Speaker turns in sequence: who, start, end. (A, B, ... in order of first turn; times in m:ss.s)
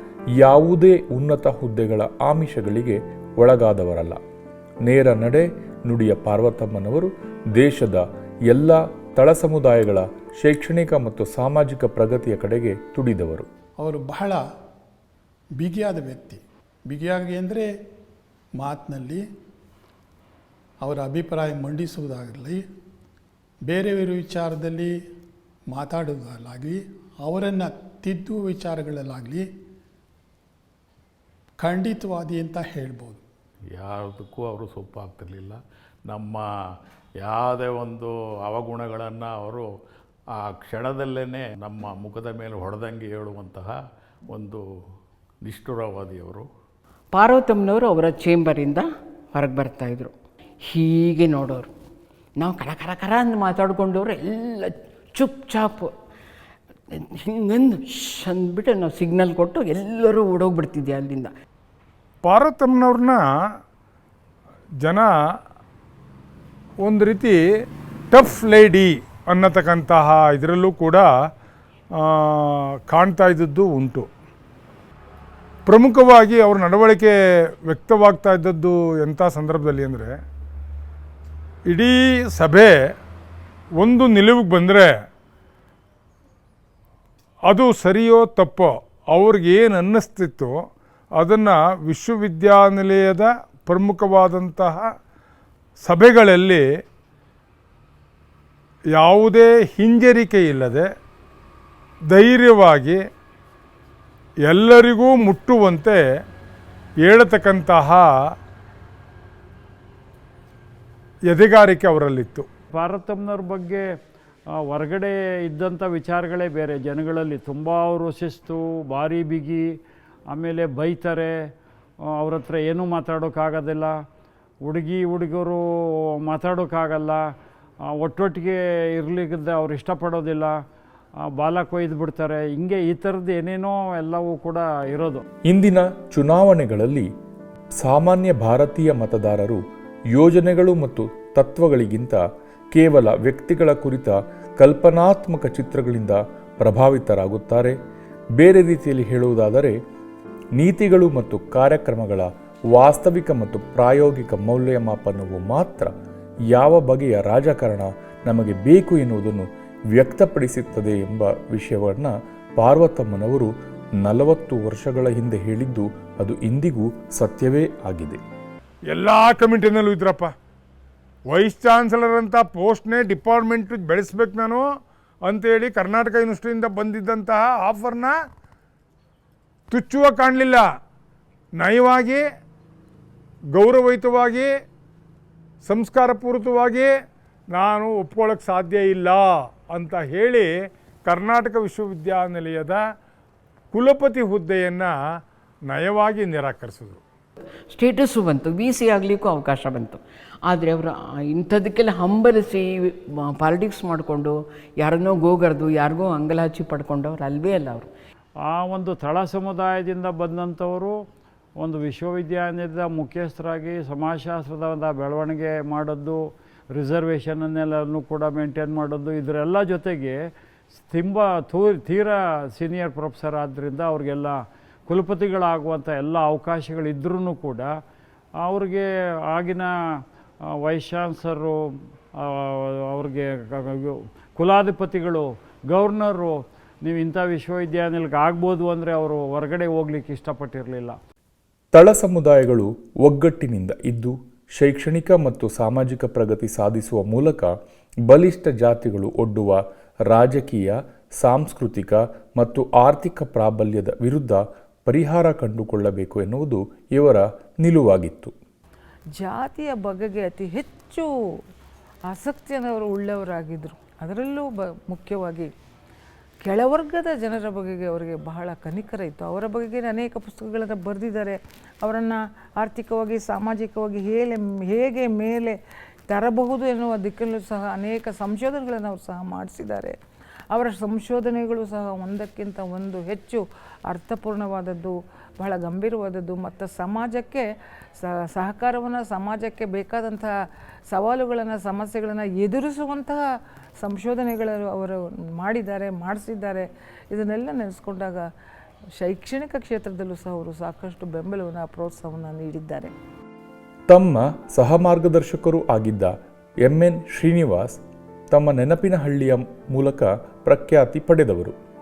0:00.4-0:04.2 A
0:04.8-0:13.5 A
0:13.8-0:14.4 B
0:15.6-0:17.7 B
0:18.6-0:19.2 B
0:20.8-0:22.6 B
0:23.7-0:24.9 B
0:25.7-0:29.5 B
0:31.6-0:33.2 B
0:33.7-0:36.5 C
0:37.2-0:39.7 C
0:40.4-0:43.8 C
0:44.3-0:44.7 C
0:45.4-0:46.5 C
0:47.1-0:51.7 D
0:52.4-0:55.9 D
0:56.9-1:01.3 D
1:02.2-1:03.2 E
1:04.8-1:05.1 E
1:06.8-1:07.4 E
1:08.1-1:11.1 E
1:12.0-1:14.1 E
1:15.7-1:17.1 E
1:17.7-1:20.2 E
1:21.7-1:22.7 E
1:23.8-1:24.9 E
1:27.5-1:30.5 E
1:31.2-1:34.9 E
1:35.8-1:36.6 E
1:39.0-1:40.9 E
1:42.1-1:43.0 E
1:44.5-1:46.0 E
1:47.0-1:48.1 E
1:51.3-1:52.5 E
1:52.7-1:53.8 F
1:54.6-1:59.7 F
2:00.3-2:01.4 F
2:02.2-2:04.0 F
2:04.6-2:05.6 F
2:06.2-2:07.2 F
2:07.9-2:10.6 F
2:11.4-2:15.2 F
2:15.5-2:17.1 A
2:17.8-2:19.6 A
2:20.1-2:22.2 A
2:22.7-2:27.8 A
2:28.4-2:29.8 A
2:30.6-2:35.9 A
2:36.5-2:48.2 A
2:48.9-2:50.3 E
2:51.3-2:54.6 E
2:55.2-2:58.1 E
2:59.7-3:00.6 E
3:01.6-3:02.2 E
3:03.6-3:04.5 E
3:05.6-3:06.9 E
3:07.5-3:10.5 E
3:11.1-3:12.8 E
3:13.7-3:14.9 E
3:15.7-3:17.0 E
3:17.7-3:27.9 D
3:28.4-3:31.0 F
3:31.6-3:40.2 F
3:40.9-3:47.7 F
3:48.4-3:49.8 F
3:50.5-3:51.6 F
3:52.2-4:01.0 F
4:01.8-4:07.5 A
4:08.1-4:09.6 A
4:10.1-4:18.3 A
4:19.2-4:21.1 G
4:22.1-4:25.5 G
4:26.4-4:35.6 G
4:36.1-4:40.0 G
4:40.5-4:47.4 G
4:48.0-4:50.3 G
4:50.9-4:53.2 G
4:53.8-4:58.2 G
4:59.0-5:02.9 G
5:03.9-5:06.1 A
5:06.6-5:07.8 A
5:08.3-5:11.6 A